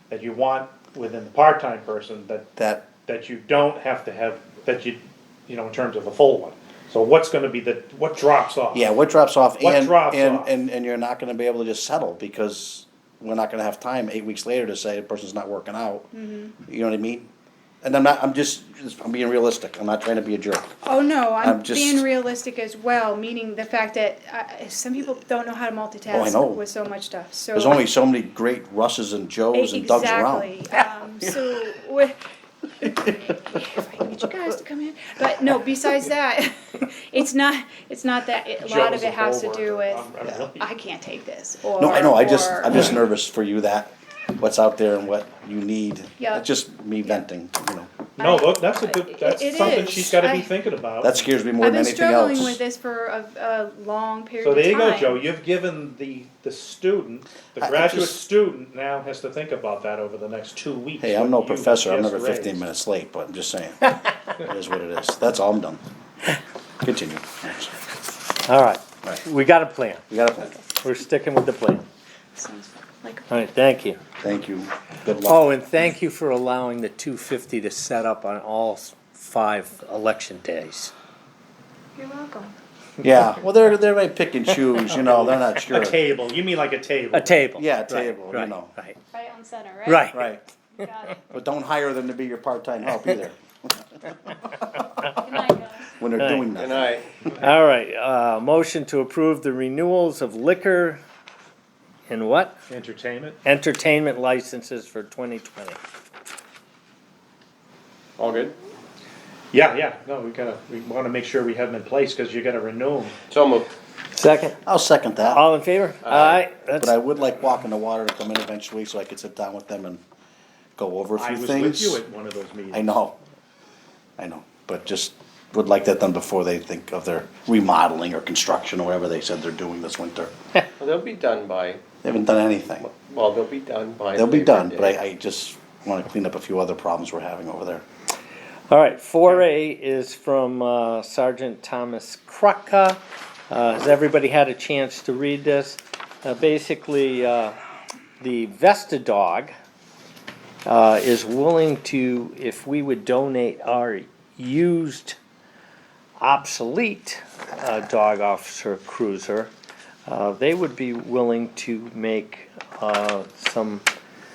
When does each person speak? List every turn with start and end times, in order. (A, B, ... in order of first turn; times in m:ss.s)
0:00.1-0:08.9 A
0:02.6-0:02.9 B
0:08.7-0:17.3 B
0:09.6-0:10.5 A
0:16.1-0:16.5 C
0:17.8-0:20.8 B
0:20.8-0:27.8 C
0:21.4-0:22.0 B
0:26.1-0:26.6 B
0:27.5-0:30.6 B
0:29.5-0:42.8 C
0:31.2-0:31.7 B
0:32.8-0:33.4 B
0:38.6-0:40.7 A
0:41.8-0:47.9 B
0:46.2-0:46.4 C
0:48.2-0:50.5 C
0:48.2-0:51.3 A
0:49.6-0:49.9 B
0:51.0-0:52.6 B
0:51.6-0:55.2 C
0:54.4-1:02.6 A
0:57.6-0:58.2 B
1:01.0-1:05.8 B
1:06.8-1:07.8 B
1:08.4-1:10.0 D
1:10.1-1:10.6 B
1:10.7-1:11.8 D
1:12.4-1:13.2 C
1:13.3-1:14.0 D
1:14.2-1:15.6 B
1:15.1-1:20.9 D
1:22.0-1:22.5 C
1:23.0-1:26.0 B
1:24.8-1:25.4 D
1:25.7-1:27.4 A
1:27.1-1:29.0 D
1:27.6-1:28.7 B
1:29.1-1:30.1 C
1:29.8-1:30.3 D
1:30.1-1:30.4 B
1:30.8-1:31.2 C
1:31.3-1:35.0 B
1:35.1-1:35.9 C
1:35.8-1:37.0 B
1:36.2-1:36.5 D
1:36.5-1:37.1 E
1:37.4-1:41.0 D
1:42.1-1:42.6 D
1:42.7-1:43.4 A
1:43.4-1:45.8 D
1:48.2-1:48.5 E
1:49.5-1:53.2 A
1:53.3-1:53.7 E
1:54.1-1:54.6 D
1:54.6-1:55.4 B
1:55.2-1:57.0 D
1:56.0-1:56.4 E
1:56.8-2:00.0 B
2:00.8-2:02.0 B
2:01.2-2:03.0 A
2:02.7-2:03.2 B
2:04.2-2:10.3 B
2:10.8-2:11.8 E
2:12.0-2:12.9 B
2:12.8-2:15.0 E
2:14.1-2:17.8 B
2:18.7-2:27.5 D
2:28.2-2:29.5 D
2:30.6-2:35.2 D
2:36.2-2:39.5 D
2:40.1-2:43.8 D